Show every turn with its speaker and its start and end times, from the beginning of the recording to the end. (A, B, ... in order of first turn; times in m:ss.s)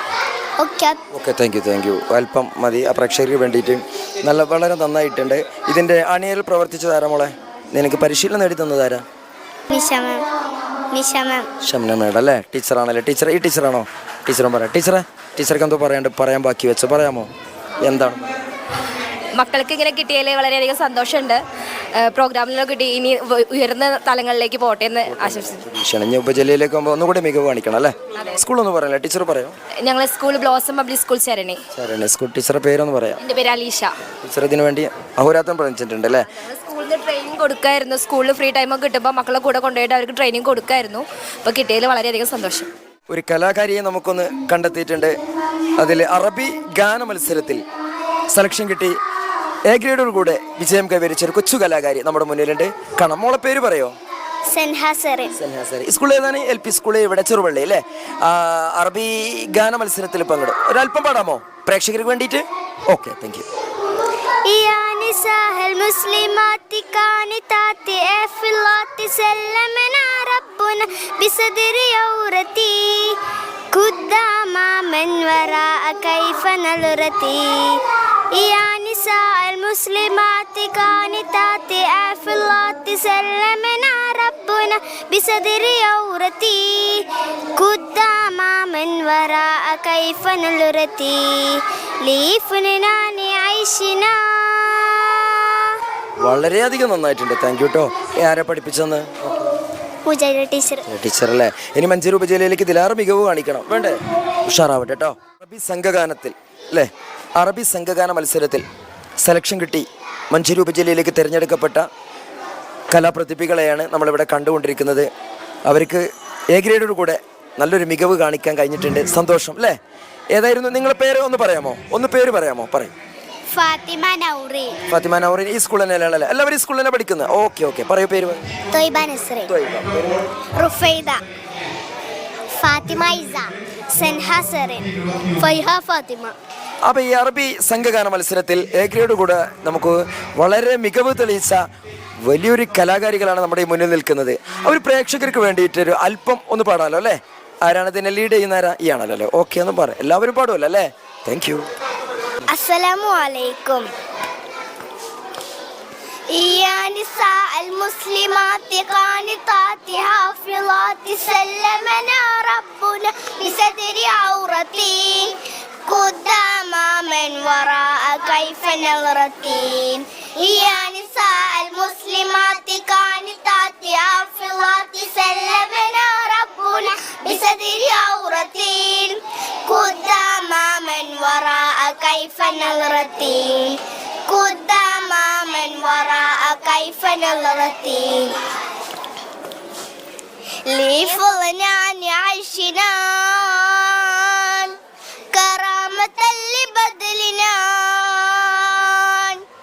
0:00.6-0:01.0 A
0:01.1-0:09.0 B
0:09.7-0:10.3 A
0:10.9-0:11.5 A
0:11.6-0:17.3 B
0:17.8-0:18.3 B
0:19.3-0:21.4 C
0:22.0-0:25.6 C
0:25.1-0:29.6 B
0:29.8-0:31.6 C
0:31.7-0:33.2 B
0:33.2-0:33.9 C
0:34.2-0:36.3 B
0:36.3-0:42.7 C
0:43.1-0:45.2 B
0:45.8-0:47.6 B
0:48.3-0:49.0 B
0:49.7-0:54.0 B
0:54.5-0:55.3 A
0:55.4-1:03.4 B
1:04.5-1:13.2 A
1:13.7-1:17.8 A
1:18.3-1:35.3 A
1:36.2-1:39.2 B
1:40.0-1:40.8 A
1:40.9-1:48.6 B
1:49.2-1:51.8 B
1:52.9-1:55.1 B
1:55.7-1:59.8 B
2:00.3-2:02.9 B
2:03.5-2:04.8 A
2:04.9-2:08.4 B
2:08.7-2:09.5 A
2:09.5-2:10.2 B
2:10.6-2:11.2 A
2:12.6-2:16.3 A
2:16.9-2:21.6 B
2:22.2-2:31.7 B
2:32.5-2:33.9 A
2:36.3-2:45.4 A
2:45.9-3:08.4 A
3:10.7-3:14.7 A
3:15.3-3:19.4 A